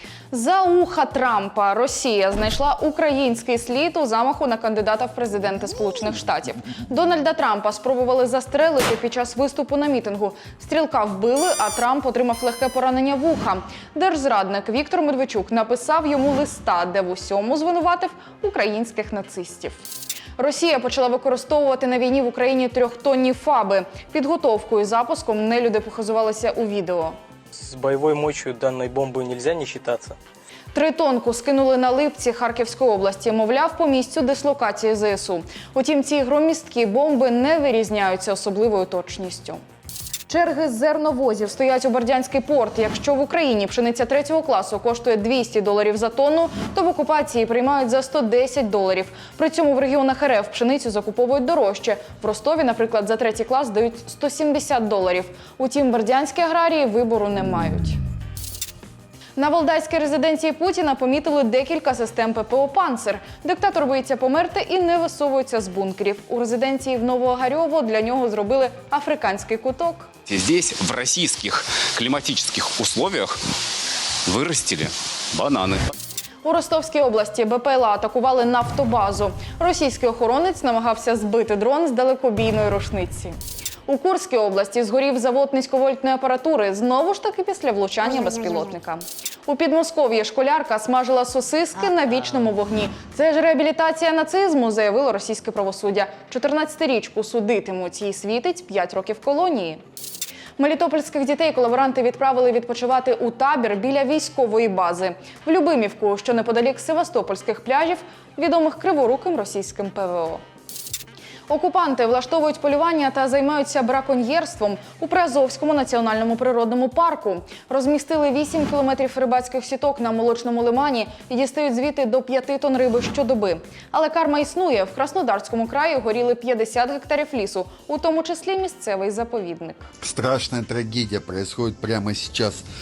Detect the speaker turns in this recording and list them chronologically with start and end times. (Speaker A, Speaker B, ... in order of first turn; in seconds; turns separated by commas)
Speaker A: 0.3-19.8, Speaker A: 20.4-27.1, Speaker B: 27.5-30.2, Speaker A: 30.7-39.6, Speaker A: 40.3-58.0, Speaker A: 59.4-70.1, Speaker C: 70.3-73.4, Speaker C: 74.2-75.8, Speaker A: 76.4-99.8, Speaker A: 100.6-110.4, Speaker A: 111.5-129.9, Speaker D: 130.0-132.6